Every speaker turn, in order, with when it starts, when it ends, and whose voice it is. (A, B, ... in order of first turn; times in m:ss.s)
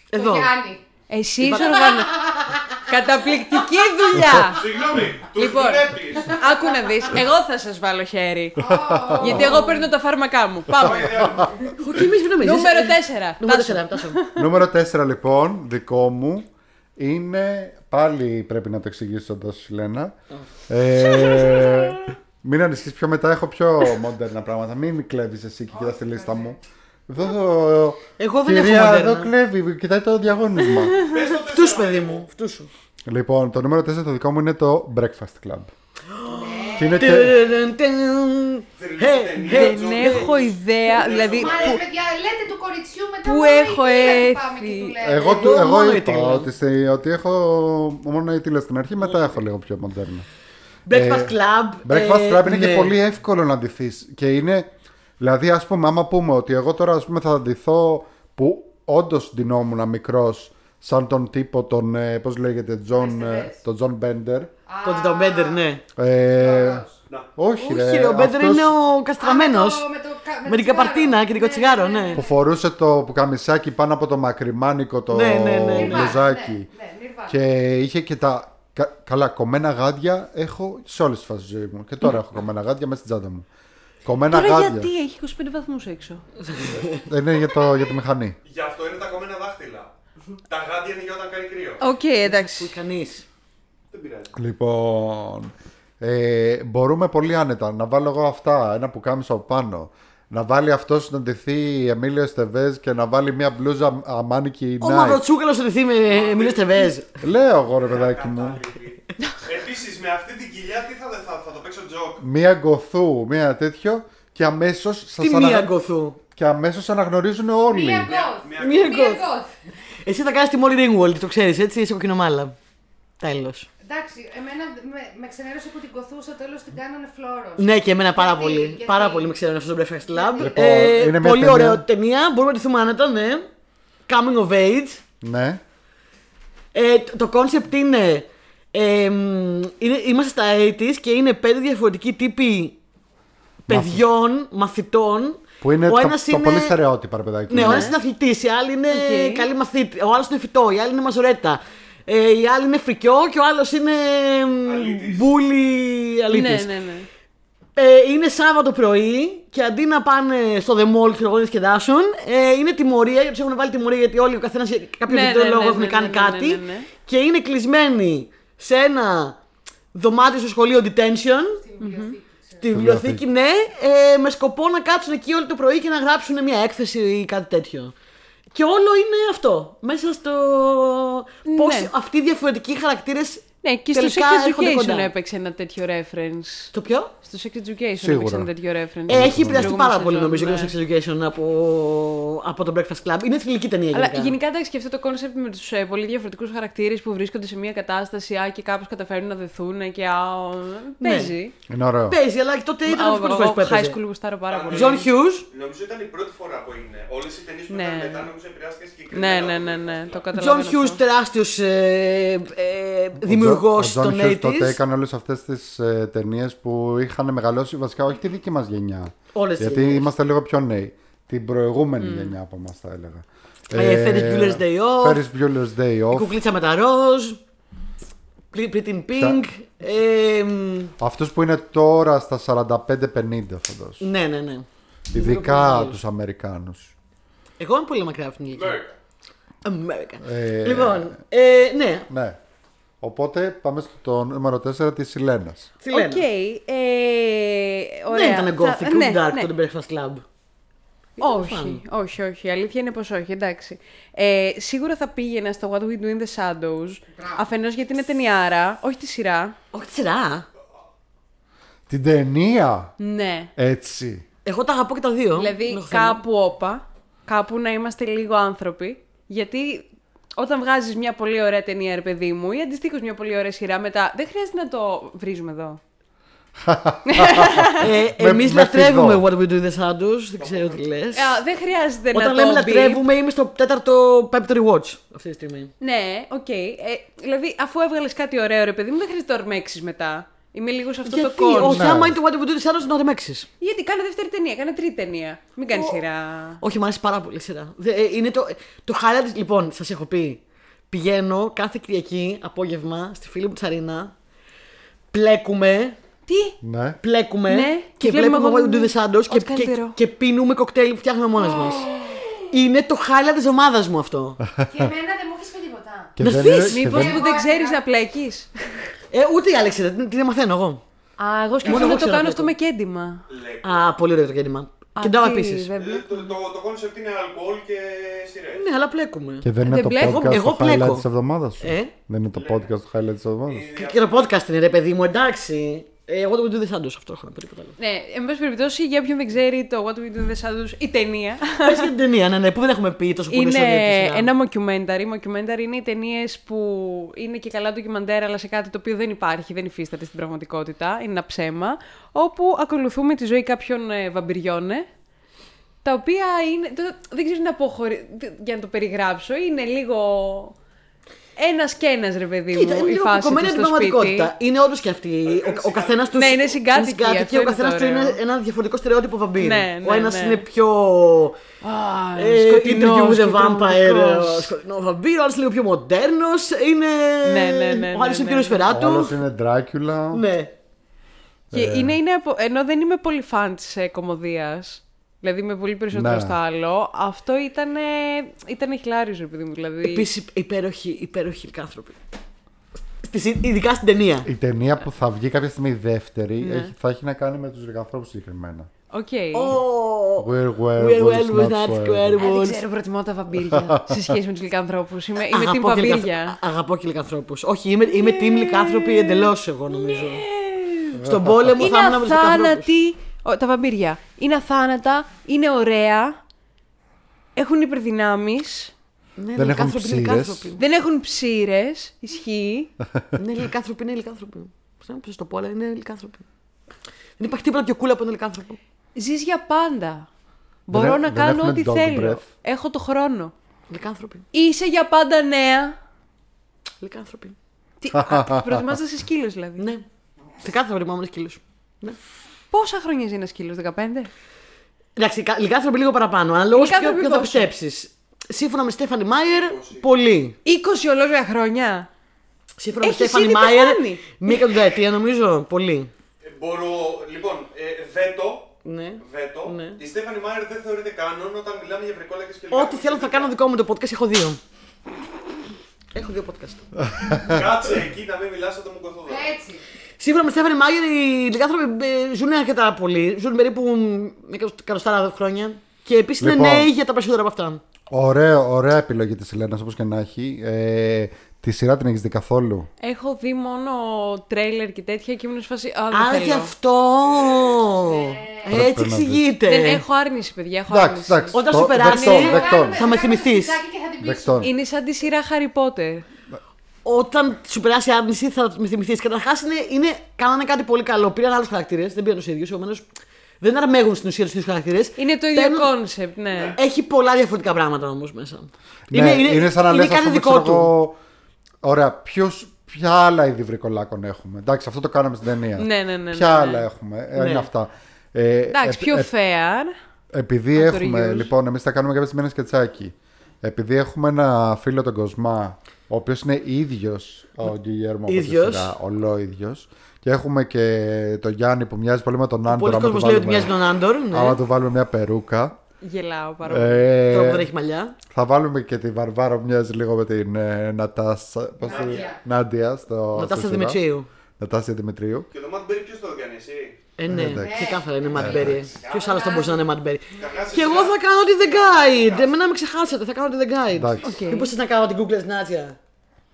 0:00.1-0:00.6 A
0:00.1-0:00.8 B
0:01.1-0:02.2 C
0:01.4-0:01.9 A
0:02.1-0:02.6 B
0:02.9-0:04.7 C
0:04.5-0:06.5 D
0:05.3-0:08.6 C
0:08.6-0:09.5 E
0:08.6-0:09.8 B
0:09.2-0:11.2 C
0:10.8-0:11.6 D
0:10.8-0:11.5 E
0:11.8-0:14.2 A
0:12.4-0:14.4 C
0:14.4-0:20.1 E
0:20.7-0:26.6 E
0:25.7-0:26.6 B
0:27.1-0:31.0 E
0:28.2-0:29.3 A
0:31.0-0:32.2 D
0:31.1-0:32.7 A
0:33.1-0:35.7 E
0:36.1-0:40.3 A
0:36.2-0:37.3 B
0:36.8-0:37.4 E
0:38.8-0:41.8 D
0:39.4-0:41.8 C
0:41.1-0:45.6 B
0:43.2-0:45.0 C
0:45.0-0:50.3 E
0:45.2-0:46.5 A
0:50.9-0:52.9 A
0:50.9-0:54.7 E
0:55.2-1:04.5 E
1:03.0-1:03.6 B
1:04.7-1:05.7 B
1:04.8-1:05.8 A
1:06.0-1:06.8 E
1:06.4-1:07.0 B
1:07.4-1:08.7 E
1:07.6-1:09.9 A
1:09.2-1:12.4 B
1:10.4-1:12.2 A
1:12.1-1:16.7 E
1:15.1-1:16.2 A
1:15.7-1:17.4 B
1:17.3-1:23.4 E
1:24.0-1:24.9 E
1:24.3-1:26.2 C
1:26.4-1:27.0 A
1:26.8-1:28.4 E
1:28.4-1:29.9 D
1:30.5-1:31.8 D
1:31.8-1:32.8 C
1:32.2-1:33.2 A
1:33.9-1:34.4 D
1:34.3-1:45.2 E
1:44.8-1:47.2 A
1:46.1-1:46.9 D
1:47.2-1:48.6 E
1:47.8-1:52.2 D
1:52.2-1:55.7 E
1:55.2-1:56.2 A
1:56.4-1:58.2 E
1:57.7-1:59.5 B
1:58.0-1:59.0 D
1:58.6-1:59.3 A
2:00.0-2:02.6 A
2:03.2-2:03.7 A
2:03.8-2:09.4 B
2:07.6-2:13.4 A
2:10.1-2:10.5 B
2:10.4-2:11.8 E
2:14.1-2:15.0 A
2:15.2-2:15.6 E
2:16.7-2:22.8 A
2:23.7-2:26.8 A
2:23.7-2:24.0 E
2:25.6-2:28.0 E
2:27.5-2:36.7 A
2:27.6-2:28.0 C
2:28.9-2:29.5 C
2:34.6-2:35.3 D
2:36.3-2:37.1 C
2:37.8-2:49.4 A
2:45.1-2:46.9 C
2:49.9-2:51.6 A
2:51.6-2:52.6 B
2:51.8-2:52.2 C
2:52.6-2:57.9 A
2:52.7-2:53.2 E
2:58.5-3:05.1 A
3:01.4-3:01.9 C
3:03.6-3:10.7 C
3:06.7-3:07.1 A
3:08.0-3:08.5 E
3:09.1-3:09.8 E
3:09.1-3:14.4 A
3:13.9-3:21.5 C
3:21.0-3:21.3 A
3:21.7-3:22.2 E
3:22.1-3:24.0 A
3:22.9-3:25.1 C
3:24.5-3:30.3 D
3:24.7-3:25.4 A
3:27.7-3:28.3 C
3:29.1-3:31.0 C
3:30.4-3:34.8 A
3:33.2-3:46.4 E
3:39.3-3:40.1 A
3:42.0-3:42.4 C
3:43.7-3:45.2 A
3:46.1-3:47.4 A
3:48.5-3:50.9 A
3:49.1-3:49.4 E
3:51.0-3:54.1 E
3:54.0-3:56.0 A
3:55.1-3:56.9 E
3:57.6-3:58.8 A
3:58.5-3:59.0 D
3:59.6-4:02.1 A
4:00.2-4:01.2 E
4:02.1-4:02.4 E
4:03.0-4:05.7 E
4:05.8-4:06.2 A
4:05.9-4:09.5 C
4:08.1-4:10.2 A
4:11.2-4:11.8 A
4:11.2-4:19.6 C
4:19.7-4:20.4 A
4:21.9-4:22.9 E
4:23.0-4:23.5 C
4:23.6-4:24.2 E
4:24.4-4:26.2 A
4:25.4-4:35.8 C
4:36.6-4:39.2 E
4:37.1-4:37.9 C
4:37.8-4:41.4 A
4:40.4-4:40.9 D
4:41.1-4:43.0 C
4:42.1-4:45.7 A
4:45.8-4:51.9 C
4:51.1-4:53.5 A
4:51.6-4:52.2 E
4:53.6-4:56.6 C
4:55.7-4:56.0 A
4:56.6-5:04.1 A
5:05.1-5:06.0 A
5:06.3-5:06.6 C
5:06.6-5:07.0 E
5:07.0-5:11.9 A
5:07.5-5:10.0 C
5:12.5-5:14.4 A
5:14.6-5:14.8 E
5:14.7-5:16.2 B
5:16.2-5:17.2 E
5:16.2-5:16.8 A
5:16.7-5:18.5 C
5:16.8-5:17.8 B
5:19.1-5:20.8 A
5:21.2-5:23.2 C
5:21.6-5:22.5 A
5:21.6-5:22.0 D
5:23.3-5:23.9 D
5:23.6-5:25.7 A
5:25.0-5:26.3 C
5:25.8-5:28.7 D
5:28.6-5:31.1 A
5:29.4-5:33.7 E
5:29.6-5:30.6 C
5:31.6-5:31.9 A
5:32.3-5:32.7 D
5:33.5-5:34.3 D
5:33.8-5:37.7 A
5:37.8-5:41.9 C
5:41.6-5:44.3 A
5:43.3-5:54.9 C
5:55.8-6:00.6 C
6:01.4-6:04.3 C
6:02.5-6:11.4 A
6:05.2-6:06.5 D
6:06.1-6:08.2 C
6:09.4-6:10.4 C
6:11.6-6:14.5 C
6:12.2-6:19.2 A
6:17.2-6:18.6 C
6:18.7-6:20.2 E
6:20.1-6:20.5 A
6:21.5-6:22.0 E
6:21.5-6:30.1 C
6:25.9-6:26.4 E
6:29.8-6:32.0 A
6:33.0-6:34.3 A
6:34.3-6:38.7 E
6:36.4-6:36.7 C
6:38.9-6:39.6 C
6:39.3-6:42.6 A
6:40.2-6:42.3 E
6:42.2-6:46.4 C
6:43.4-6:44.1 E
6:45.3-6:50.2 A
6:47.9-6:51.0 C
6:51.0-6:51.6 E
6:51.0-6:52.7 A
6:51.6-6:56.2 C
6:57.4-6:58.7 C
6:59.2-7:00.6 A
6:59.4-7:00.6 E
7:00.6-7:02.7 C
7:03.2-7:06.2 A
7:07.2-7:08.6 A
7:09.0-7:10.1 C
7:10.7-7:13.3 C
7:10.7-7:12.3 E
7:13.7-7:14.3 A
7:14.3-7:15.8 C
7:16.8-7:17.4 A
7:17.8-7:19.7 C
7:17.9-7:18.7 E
7:19.6-7:19.8 A
7:20.4-7:22.0 A
7:22.5-7:24.1 C
7:25.0-7:30.4 A
7:26.5-7:27.5 C
7:29.3-7:29.8 D
7:30.4-7:31.9 C
7:32.6-7:35.9 A
7:32.8-7:34.5 C
7:36.2-7:43.4 D
7:38.6-7:39.8 A
7:42.5-7:44.4 A
7:45.9-7:46.6 A
7:46.8-7:47.6 E
7:47.1-7:49.3 D
7:49.1-7:49.6 B
7:50.0-7:57.6 A
7:56.2-7:56.7 E
7:57.9-8:02.7 E
8:02.8-8:06.5 C
8:05.9-8:09.8 A
8:07.0-8:07.8 D
8:07.9-8:08.7 B
8:08.5-8:09.3 E
8:09.4-8:11.4 C
8:10.7-8:12.9 E
8:11.3-8:13.6 A
8:11.8-8:14.5 B
8:14.0-8:14.5 E
8:14.4-8:16.0 C
8:16.8-8:22.9 A
8:23.4-8:25.7 A
8:25.0-8:26.6 C
8:26.3-8:26.6 D
8:26.6-8:30.7 A
8:28.9-8:31.0 E
8:31.6-8:39.1 E
8:35.6-8:36.7 C
8:37.2-8:37.5 A
8:38.5-8:39.7 C
8:40.1-8:53.6 E
8:40.5-8:41.3 C
8:48.1-8:48.7 A
8:52.5-8:54.4 A
8:54.1-8:55.6 E
8:55.8-8:56.9 C
8:56.4-8:57.5 E
8:57.1-8:58.0 A
8:58.1-9:03.8 E
9:01.6-9:02.1 D
9:01.7-9:02.2 B
9:03.1-9:04.1 A
9:04.4-9:05.3 E
9:05.3-9:06.8 D
9:07.0-9:15.8 A
9:07.1-9:08.7 E
9:07.2-9:08.4 B
9:08.4-9:09.6 D
9:09.1-9:09.6 B
9:10.1-9:10.8 B
9:10.2-9:12.4 D
9:13.7-9:14.1 E
9:14.0-9:14.5 C